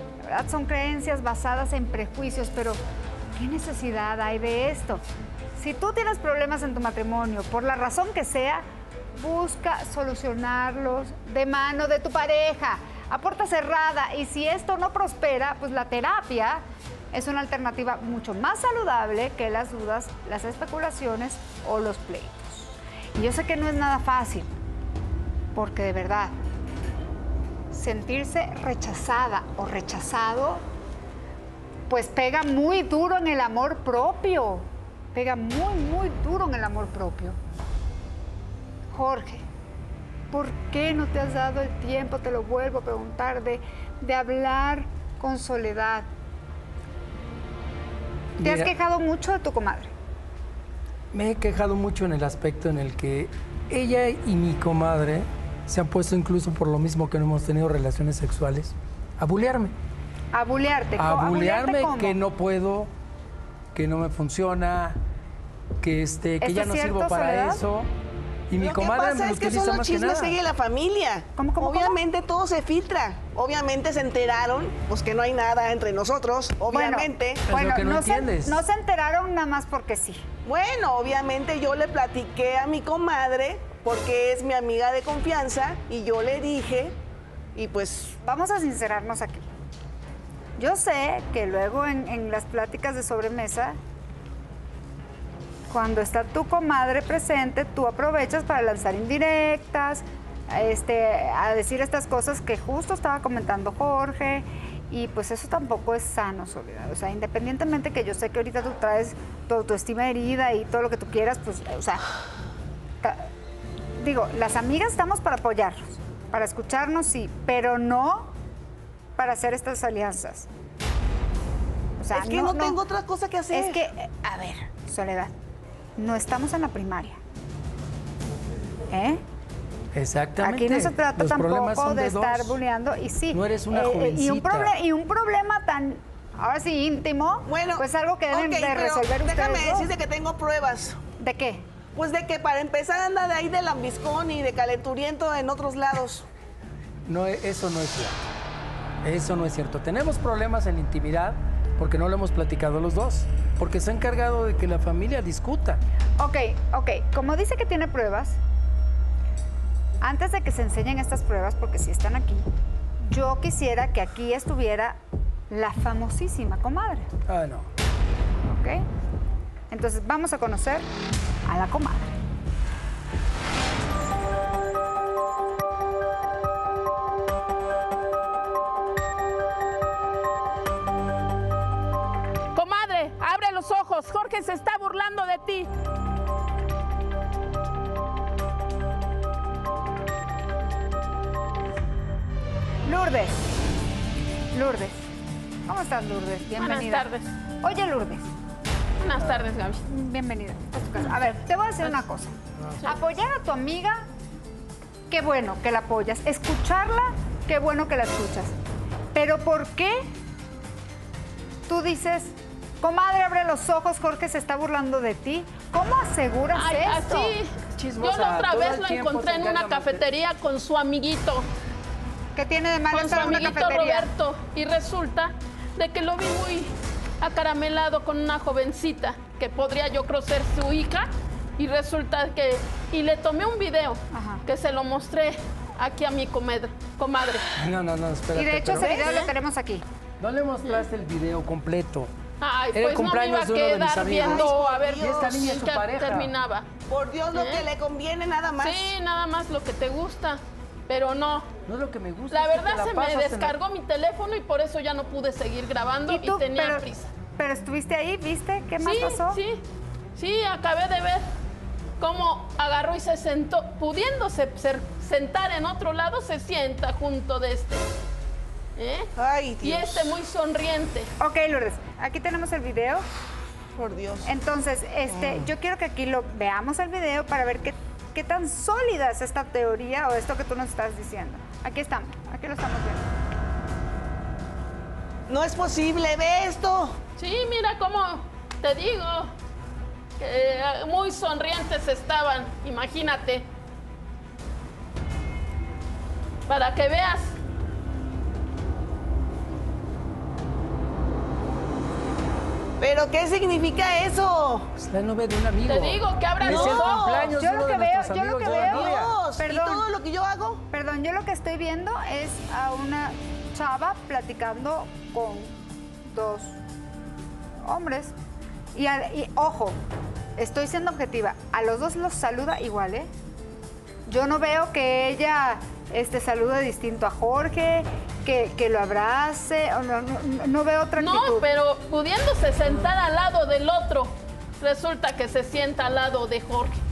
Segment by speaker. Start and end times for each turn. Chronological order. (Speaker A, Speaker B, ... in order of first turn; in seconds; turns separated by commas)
Speaker A: 0.3-2.8, Speaker A: 3.3-5.0, Speaker A: 5.5-8.6, Speaker A: 9.2-24.5, Speaker A: 25.5-26.3, Speaker A: 27.7-30.6, Speaker A: 31.9-37.4, Speaker A: 38.9-39.4, Speaker A: 40.3-46.1, Speaker B: 48.4-48.7, Speaker A: 48.4-49.9, Speaker B: 51.1-59.7, Speaker A: 60.3-62.2, Speaker B: 61.0-62.9, Speaker B: 63.7-65.0, Speaker B: 65.8-67.9, Speaker A: 66.4-67.6, Speaker B: 68.5-70.4, Speaker C: 68.6-77.4, Speaker A: 71.3-72.0, Speaker A: 76.7-80.2, Speaker B: 77.5-78.6, Speaker C: 80.4-87.0, Speaker C: 87.5-88.1, Speaker A: 88.2-89.4, Speaker A: 90.6-93.8, Speaker A: 95.7-112.0, Speaker A: 113.0-113.3, Speaker A: 114.0-118.3, Speaker A: 119.2-120.5, Speaker A: 122.0-122.8, Speaker C: 122.1-123.8, Speaker A: 123.5-125.3, Speaker A: 126.0-127.2, Speaker A: 128.9-129.2, Speaker B: 129.9-132.6, Speaker A: 130.4-139.9, Speaker B: 133.3-134.7, Speaker C: 137.4-141.0, Speaker A: 141.2-141.6, Speaker C: 141.9-146.2, Speaker B: 147.1-148.2, Speaker B: 149.0-155.8, Speaker A: 156.2-158.4, Speaker A: 160.0-162.4, Speaker A: 163.0-167.1, Speaker B: 167.3-167.7, Speaker A: 168.5-168.8, Speaker A: 169.7-170.9, Speaker A: 171.4-172.2, Speaker D: 182.5-185.7, Speaker A: 192.8-193.4, Speaker A: 194.5-195.0, Speaker A: 195.7-197.1, Speaker D: 196.6-197.3, Speaker A: 197.6-198.3, Speaker D: 199.0-199.8, Speaker A: 199.8-204.1, Speaker A: 205.1-208.5, Speaker A: 209.1-210.1, Speaker A: 211.7-217.3, Speaker D: 216.5-221.5, Speaker B: 217.6-220.1, Speaker A: 222.3-224.1, Speaker D: 222.9-237.4, Speaker A: 234.1-234.4, Speaker B: 237.5-239.1, Speaker A: 238.3-239.8, Speaker C: 238.8-239.2, Speaker D: 239.1-239.3, Speaker B: 240.2-242.1, Speaker D: 242.4-246.7, Speaker B: 242.7-246.3, Speaker C: 244.2-245.6, Speaker C: 246.9-248.9, Speaker D: 247.3-247.7, Speaker D: 248.6-251.5, Speaker B: 251.7-253.5, Speaker D: 252.3-257.1, Speaker A: 256.1-256.8, Speaker A: 257.4-259.4, Speaker D: 258.8-259.6, Speaker D: 260.1-261.3, Speaker D: 262.0-267.9, Speaker D: 268.8-269.1, Speaker C: 269.2-270.2, Speaker D: 269.6-271.1, Speaker A: 271.2-273.0, Speaker C: 273.7-274.3, Speaker A: 274.2-283.1, Speaker B: 275.1-275.5, Speaker C: 285.3-287.0, Speaker D: 287.2-289.3, Speaker D: 290.2-293.4, Speaker D: 296.5-297.3, Speaker C: 302.8-304.7, Speaker B: 304.8-309.1, Speaker D: 305.6-307.0, Speaker C: 306.4-307.3, Speaker A: 307.2-309.9, Speaker C: 308.4-310.6, Speaker A: 310.7-316.6, Speaker A: 317.6-318.1, Speaker A: 318.7-319.8, Speaker A: 320.4-323.1, Speaker A: 324.1-331.4, Speaker D: 331.0-336.8